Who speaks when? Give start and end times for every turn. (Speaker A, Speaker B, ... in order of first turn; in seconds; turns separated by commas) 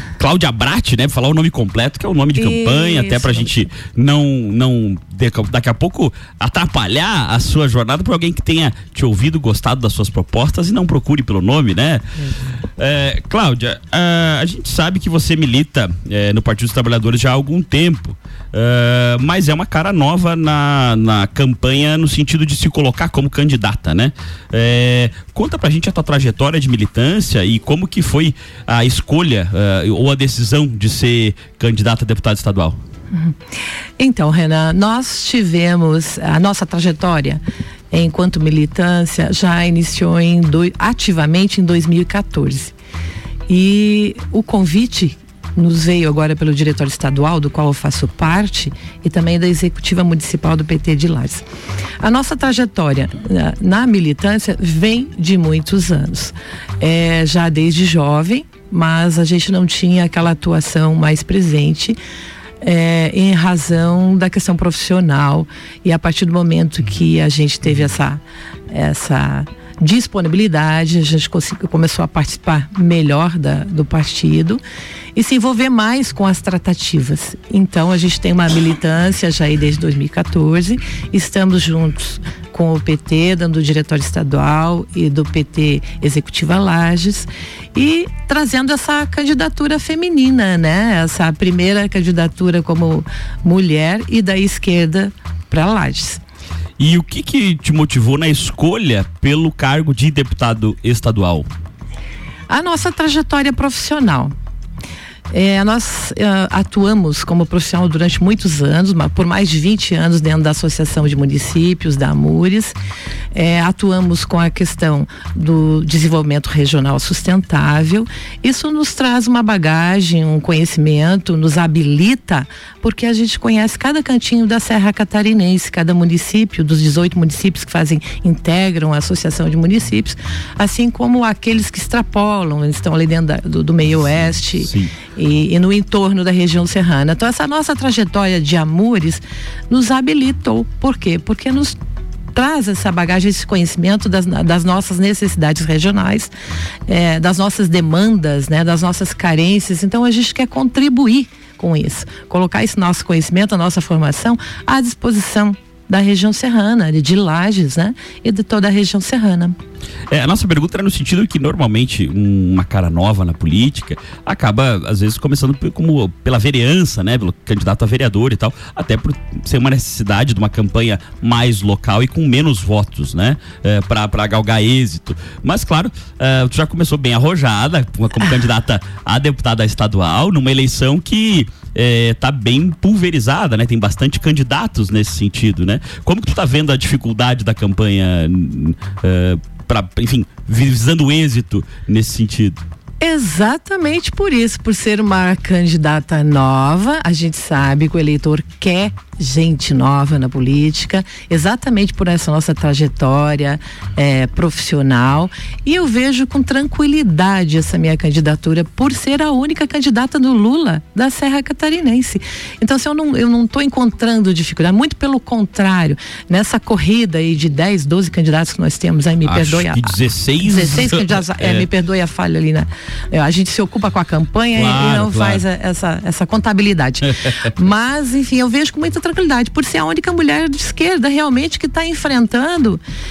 Speaker A: 0.2-12.0, Speaker B: 2.3-3.6, Speaker A: 12.8-32.8, Speaker B: 33.1-33.4, Speaker B: 34.0-42.7, Speaker B: 43.5-51.4, Speaker B: 52.0-62.0, Speaker B: 62.6-74.6, Speaker B: 75.1-96.2, Speaker A: 96.8-101.5, Speaker B: 102.5-104.3, Speaker B: 105.3-112.7, Speaker B: 113.3-141.8, Speaker A: 133.9-134.9, Speaker B: 142.3-146.3, Speaker B: 146.9-159.6, Speaker A: 160.1-192.6, Speaker B: 193.0-219.9, Speaker A: 219.2-221.7, Speaker B: 220.4-232.8, Speaker A: 224.5-225.4